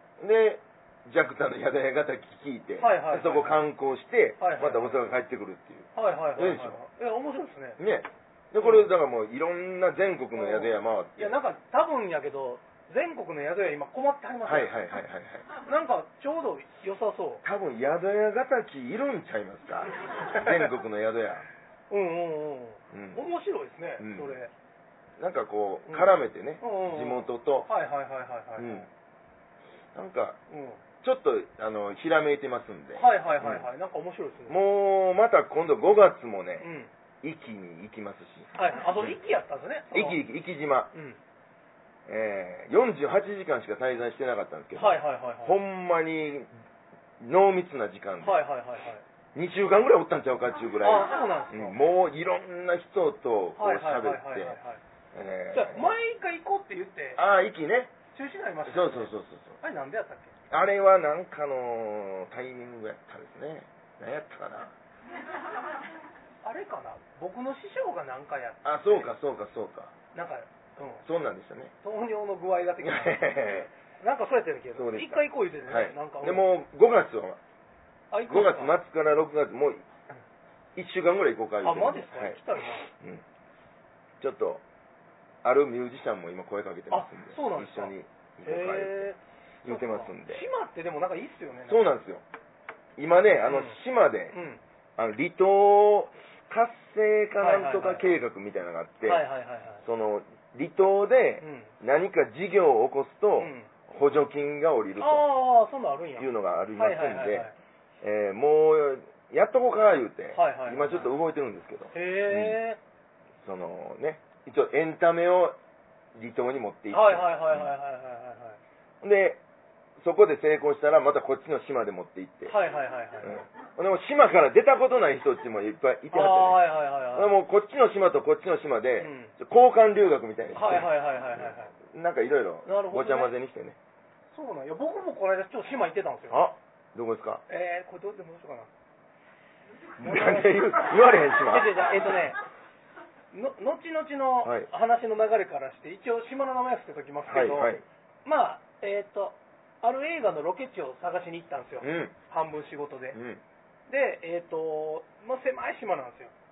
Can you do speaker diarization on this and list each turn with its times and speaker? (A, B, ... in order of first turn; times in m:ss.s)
0:00.2-0:06.8 A
0:02.8-0:03.6 B
0:04.4-0:05.0 B
0:05.9-0:07.8 B
0:07.8-0:11.4 A
0:08.6-0:08.9 B
0:10.3-0:14.7 B
0:14.4-0:15.4 A
0:15.6-0:17.4 B
0:17.4-0:21.4 A
0:20.3-0:20.6 B
0:21.9-0:24.5 B
0:22.9-0:23.2 A
0:24.0-0:24.4 A
0:25.2-0:27.7 A
0:25.9-0:28.9 B
0:28.6-0:28.9 A
0:29.9-0:30.4 A
0:30.5-0:30.8 B
0:31.0-0:33.6 A
0:32.9-0:34.6 B
0:34.5-0:36.7 A
0:36.6-0:36.9 B
0:37.2-0:38.5 A
0:38.5-0:40.2 B
0:39.9-0:40.9 A
0:40.9-0:41.2 B
0:42.1-0:46.5 A
0:44.7-0:45.6 B
0:47.2-0:48.4 A
0:48.2-0:49.0 B
0:49.3-0:54.6 A
0:50.8-0:51.8 B
0:53.6-0:54.8 B
0:55.1-0:55.9 A
0:55.5-0:57.2 B
0:57.2-0:57.9 A
0:58.1-1:00.3 B
0:58.6-0:59.6 A
1:00.5-1:04.7 A
1:06.4-1:09.1 B
1:08.6-1:09.9 A
1:10.1-1:11.0 B
1:11.0-1:11.7 A
1:11.8-1:13.3 B
1:12.8-1:13.7 A
1:14.0-1:16.5 B
1:14.8-1:17.4 A
1:18.1-1:18.8 B
1:18.3-1:19.8 A
1:20.8-1:23.2 A
1:21.6-1:22.9 B
1:24.2-1:24.6 A
1:25.4-1:29.1 A
1:26.9-1:27.9 B
1:28.4-1:31.8 B
1:29.6-1:30.4 A
1:31.7-1:32.2 A
1:33.0-1:34.4 A
1:33.4-1:33.8 B
1:34.3-1:34.6 B
1:35.0-1:39.2 A
1:37.4-1:38.0 B
1:39.0-1:39.8 B
1:39.8-1:45.2 A
1:41.4-1:41.7 B
1:43.4-1:43.7 B
1:45.0-1:47.5 B
1:46.2-1:47.5 A
1:48.0-1:52.6 A
1:50.3-1:51.1 B
1:51.9-1:52.8 B
1:53.4-1:55.6 A
1:56.1-1:57.7 A
1:56.9-1:58.6 B
1:59.0-1:59.4 A
2:00.0-2:02.6 A
2:02.5-2:03.4 B
2:03.2-2:13.8 A
2:06.1-2:07.4 B
2:09.0-2:09.3 B
2:10.5-2:11.7 B
2:12.6-2:13.3 B
2:14.3-2:16.4 B
2:16.3-2:17.4 A
2:17.5-2:18.7 B
2:20.0-2:22.0 A
2:20.0-2:20.8 B
2:21.4-2:22.4 B
2:23.3-2:27.7 B
2:24.4-2:24.7 A
2:27.3-2:27.8 A
2:28.2-2:33.2 B
2:31.8-2:32.1 A
2:33.1-2:33.4 A
2:33.9-2:36.3 B